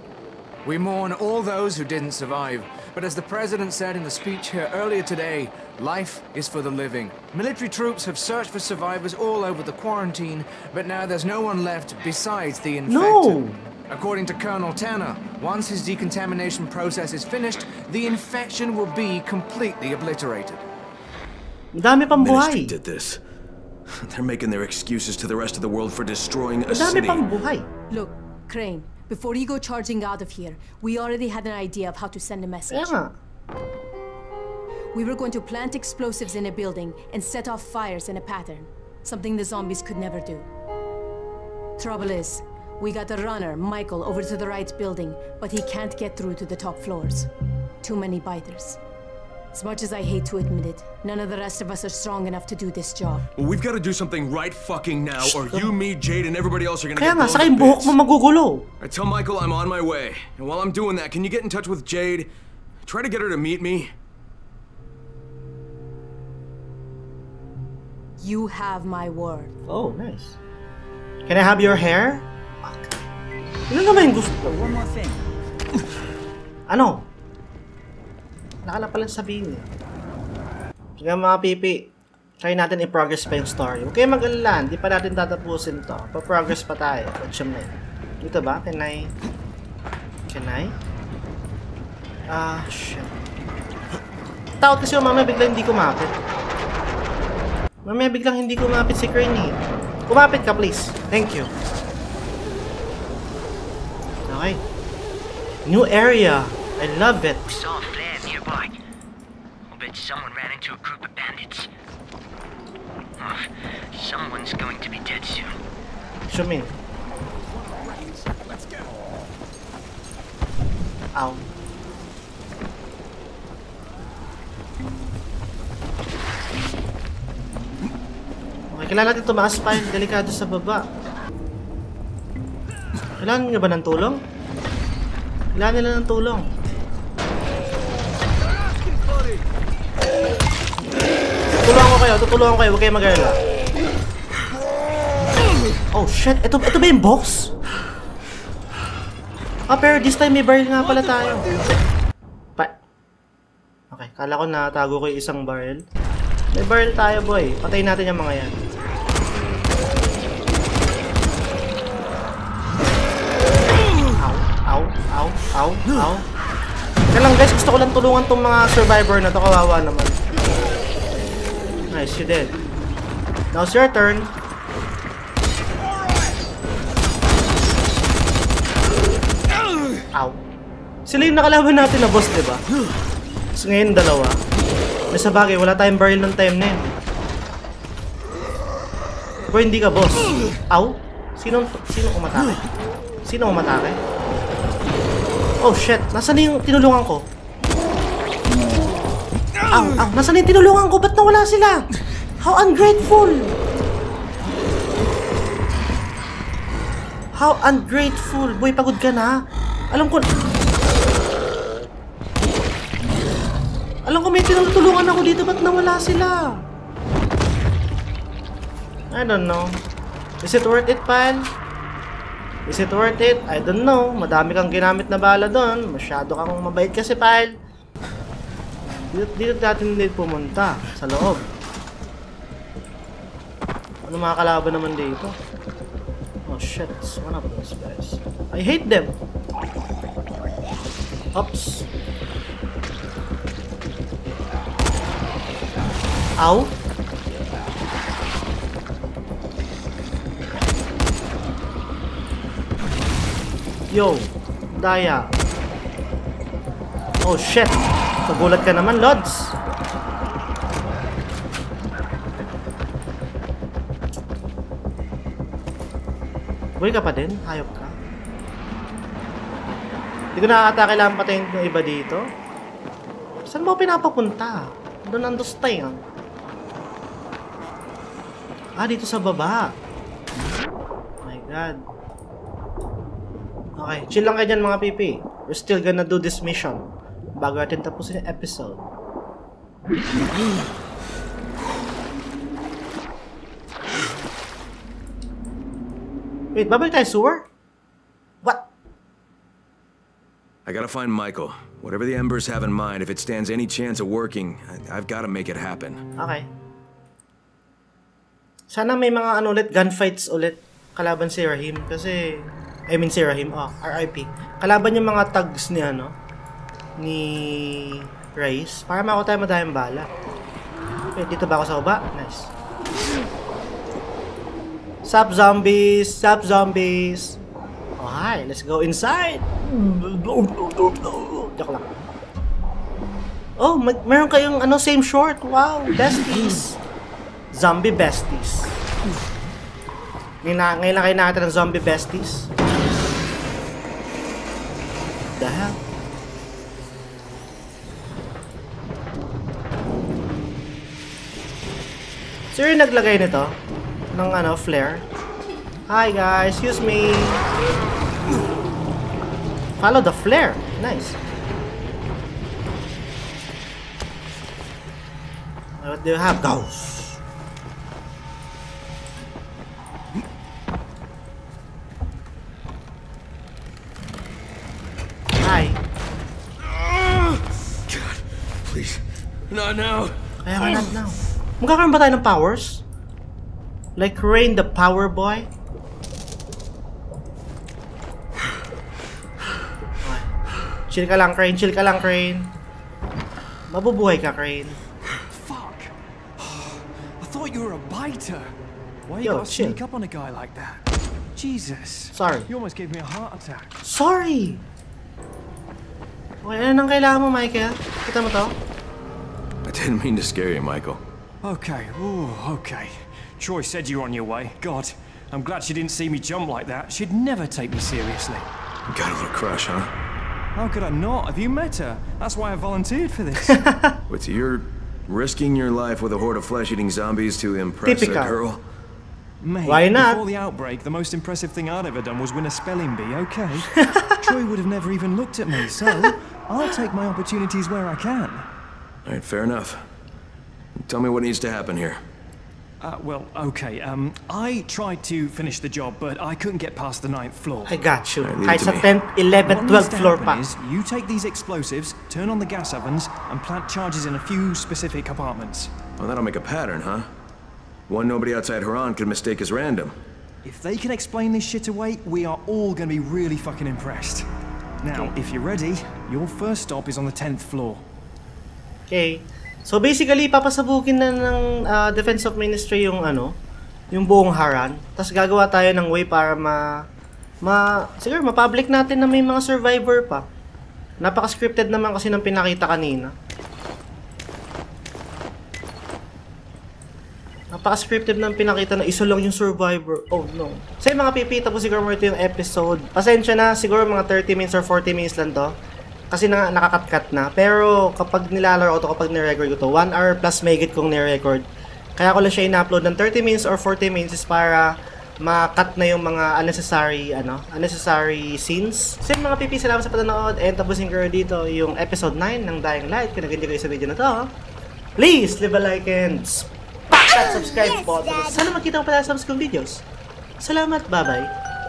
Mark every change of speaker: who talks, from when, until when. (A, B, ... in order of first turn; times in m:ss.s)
0:00.6-0:20.6 A
0:12.9-0:13.6 B
0:21.8-0:22.7 B
0:22.2-0:23.2 C
0:23.9-0:27.2 C
0:26.7-0:27.7 B
0:27.9-0:32.9 D
0:32.7-0:33.1 B
0:34.9-0:40.5 D
0:41.8-0:47.3 D
0:47.8-0:48.8 D
0:49.5-0:53.2 D
0:53.4-0:57.9 C
0:55.2-0:55.7 B
0:57.0-0:58.6 B
0:58.8-1:02.3 C
1:02.8-1:03.9 C
1:08.2-1:09.5 D
1:09.7-1:10.4 B
1:11.3-1:12.2 B
1:13.7-1:14.6 B
1:14.4-1:15.2 E
1:16.7-1:17.1 B
1:18.6-1:19.7 B
1:21.0-1:21.9 B
1:22.4-1:29.1 B
1:30.3-1:30.7 B
1:32.3-1:33.1 B
1:34.6-1:36.1 B
1:37.8-1:41.5 B
1:44.3-1:44.6 B
1:45.6-1:47.6 B
1:47.5-1:48.8 F
1:49.7-1:51.7 F
1:53.2-1:55.5 F
1:56.3-1:56.7 B
1:57.5-1:58.9 E
2:01.1-2:01.4 B
2:08.7-2:10.8 B
2:13.2-2:14.2 B
2:15.5-2:16.5 B
2:21.6-2:23.4 B
2:25.9-2:27.5 B
2:29.7-2:31.6 B
2:33.9-2:35.8 B
2:36.5-2:38.6 B
2:44.2-2:46.2 B
2:47.1-2:50.2 B
2:51.9-2:52.5 B
2:53.5-2:54.3 B
3:01.1-3:02.6 B
3:03.5-3:04.4 B
3:05.1-3:06.9 B
3:09.5-3:12.6 B
3:13.2-3:14.0 B
3:15.6-3:17.3 B
3:19.7-3:21.8 B
3:22.4-3:23.5 B
3:27.3-3:29.4 B
3:29.9-3:30.2 B
3:34.0-3:36.6 B
3:39.1-3:39.8 B
3:40.4-3:41.5 B
3:42.6-3:47.5 B
3:48.8-3:51.4 B
3:54.0-3:55.3 B
3:56.5-3:59.1 B
4:01.3-4:01.8 B
4:06.4-4:06.7 B
4:13.9-4:15.3 B
4:17.2-4:19.5 B
4:26.8-4:27.9 B
4:29.6-4:32.3 B
4:33.4-4:36.0 B
4:38.8-4:39.7 B
4:41.2-4:41.8 B
4:43.8-4:48.9 B
4:56.5-4:57.5 B
5:00.6-5:06.0 C
5:06.2-5:06.5 B
5:08.7-5:16.1 B
5:17.0-5:20.1 B
5:21.1-5:22.5 B
5:25.0-5:27.4 B
5:28.0-5:32.0 B
5:33.6-5:36.8 B
5:37.5-5:38.7 B
5:40.4-5:42.5 B
5:45.3-5:45.8 B
5:52.5-5:53.6 B
5:54.1-5:55.0 B
5:55.9-5:57.4 B
5:59.8-6:01.2 B
6:05.8-6:07.2 B
6:15.4-6:15.8 B
6:16.7-6:20.9 C
6:20.4-6:22.8 B
6:24.0-6:25.5 B
6:30.0-6:30.3 B
6:30.9-6:32.5 B
6:33.7-6:34.8 B
6:35.3-6:38.5 G
6:39.1-6:40.8 G
6:39.2-6:39.8 B
6:41.4-6:43.7 G
6:42.1-6:42.5 B
6:43.8-6:44.6 B
6:46.4-6:48.6 B
6:49.6-6:51.0 C
6:51.4-6:58.4 G
6:58.9-6:59.9 C
7:00.6-7:03.6 G
7:03.5-7:04.0 B
7:04.1-7:08.6 C
7:07.8-7:08.4 B
7:09.4-7:18.4 G
7:09.6-7:10.2 B
7:13.7-7:14.1 B
7:19.0-7:19.8 C
7:20.8-7:22.0 C
7:22.8-7:27.7 G
7:27.7-7:30.4 B
7:28.2-7:28.9 C
7:29.5-7:35.7 G
7:36.0-7:37.1 C
7:37.9-7:39.9 C
7:40.4-7:44.2 G
7:44.8-7:47.8 G
7:48.9-7:53.3 B
7:53.9-7:56.7 B
7:57.4-8:00.2 B
8:01.0-8:03.1 B
8:07.5-8:15.5 B
8:16.1-8:21.4 B
8:22.0-8:24.7 B
8:25.2-8:34.3 B
8:35.0-8:39.8 B
8:40.4-8:41.3 B